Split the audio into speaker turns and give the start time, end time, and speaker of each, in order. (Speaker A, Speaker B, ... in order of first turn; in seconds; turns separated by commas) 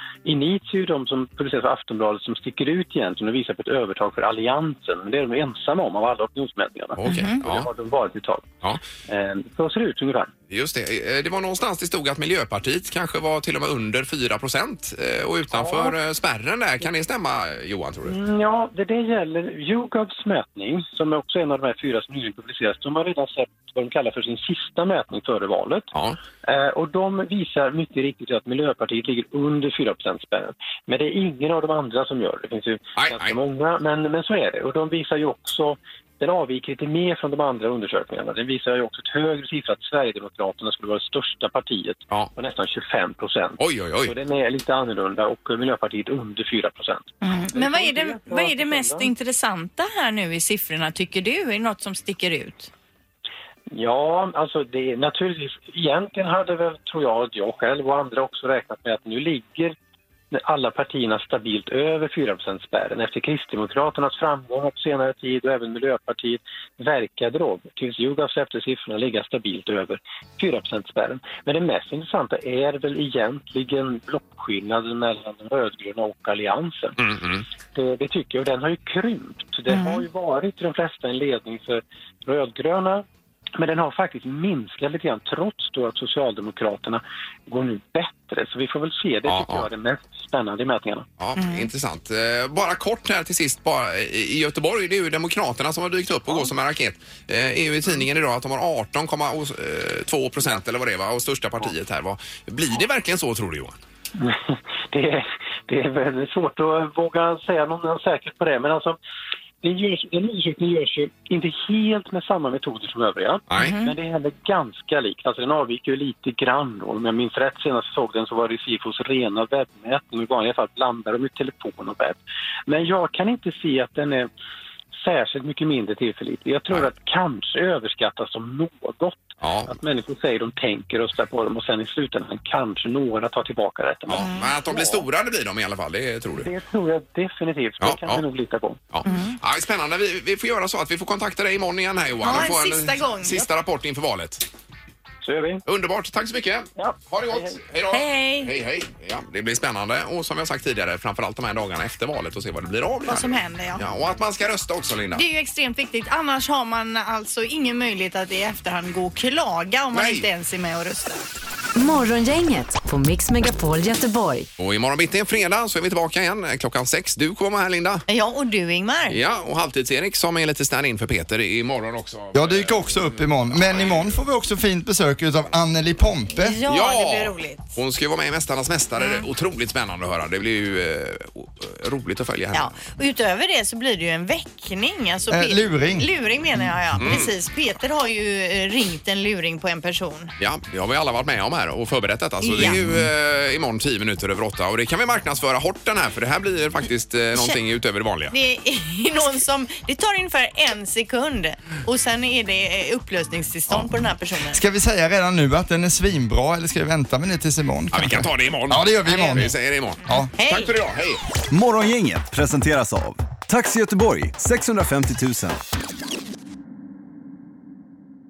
Speaker A: 0.2-8.5, Speaker B: 7.0-7.7, Speaker C: 7.0-7.4, Speaker A: 9.1-10.3, Speaker B: 10.5-18.2, Speaker A: 15.5-16.0, Speaker A: 18.1-25.9, Speaker A: 26.4-49.1, Speaker B: 33.0-33.4, Speaker B: 43.6-44.1, Speaker C: 47.2-52.7, Speaker A: 53.8-59.8, Speaker A: 60.3-77.0, Speaker B: 77.0-77.4, Speaker A: 77.8-83.0, Speaker C: 79.7-80.0, Speaker A: 83.6-91.1, Speaker B: 89.3-89.7, Speaker B: 91.2-103.8, Speaker C: 91.4-91.7, Speaker A: 104.2-109.0, Speaker A: 109.6-124.3, Speaker B: 113.5-113.8, Speaker C: 113.6-113.9, Speaker A: 125.0-135.1, Speaker B: 129.4-129.8, Speaker B: 134.1-136.5, Speaker C: 134.2-134.5, Speaker A: 136.4-138.8, Speaker B: 137.8-138.2, Speaker B: 138.9-144.4, Speaker C: 139.1-139.4, Speaker C: 142.2-143.4, Speaker A: 145.2-145.6, Speaker B: 145.7-155.2, Speaker A: 146.8-147.6, Speaker C: 147.9-148.5, Speaker C: 153.1-153.8, Speaker C: 155.2-161.3, Speaker B: 159.9-160.3, Speaker D: 161.8-164.5, Speaker B: 164.6-168.1, Speaker C: 168.1-169.2, Speaker B: 169.1-174.2, Speaker E: 172.3-176.6, Speaker C: 176.3-177.8, Speaker B: 176.7-182.7, Speaker C: 179.0-179.3, Speaker C: 182.5-190.3, Speaker E: 185.3-186.1, Speaker B: 187.0-187.3, Speaker B: 190.4-198.3, Speaker C: 192.4-192.8, Speaker E: 192.6-193.1, Speaker C: 198.3-204.6, Speaker E: 204.5-209.5, Speaker B: 207.9-211.2, Speaker C: 209.1-209.5, Speaker C: 210.3-210.8, Speaker F: 211.5-215.6